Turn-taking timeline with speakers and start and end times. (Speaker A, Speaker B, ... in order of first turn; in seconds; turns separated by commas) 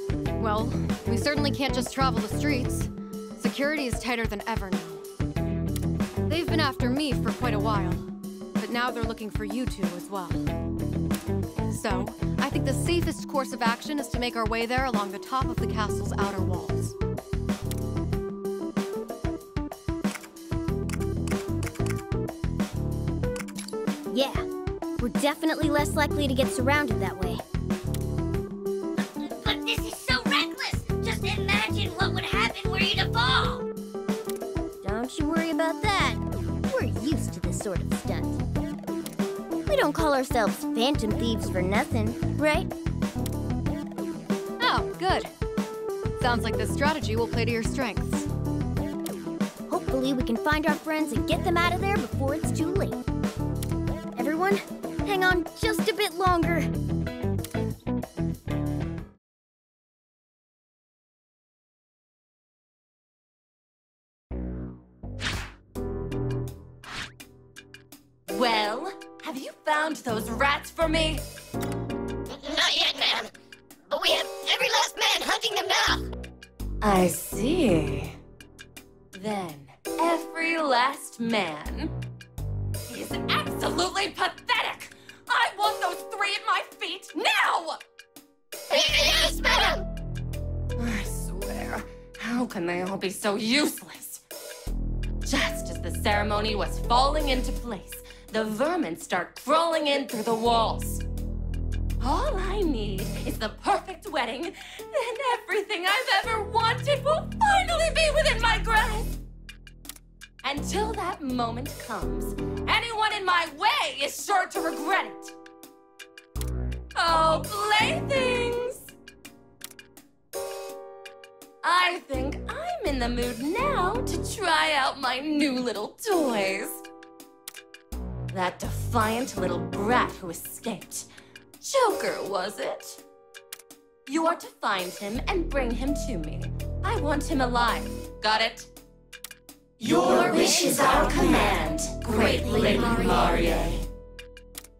Speaker A: 0.4-5.0, Speaker A: 6.3-8.1, Speaker A: 8.6-10.4, Speaker A: 11.7-16.9, Speaker B: 24.1-24.4, Speaker B: 25.0-27.4, Speaker C: 29.0-33.7, Speaker B: 34.8-38.4, Speaker B: 39.7-42.7, Speaker A: 44.6-45.3, Speaker A: 46.2-48.3, Speaker B: 49.7-53.0, Speaker B: 54.1-56.7, Speaker D: 68.3-71.2, Speaker C: 72.3-73.3, Speaker C: 73.9-76.0, Speaker D: 76.8-78.2, Speaker D: 79.1-81.9, Speaker D: 82.9-87.8, Speaker D: 88.7-89.8, Speaker D: 90.8-94.2, Speaker D: 95.2-101.0, Speaker D: 102.0-109.2, Speaker D: 110.4-115.3, Speaker D: 116.9-118.9, Speaker D: 121.6-126.8, Speaker D: 128.3-131.1, Speaker D: 131.6-133.0, Speaker D: 134.1-138.7, Speaker D: 139.8-143.8, Speaker B: 142.4-143.2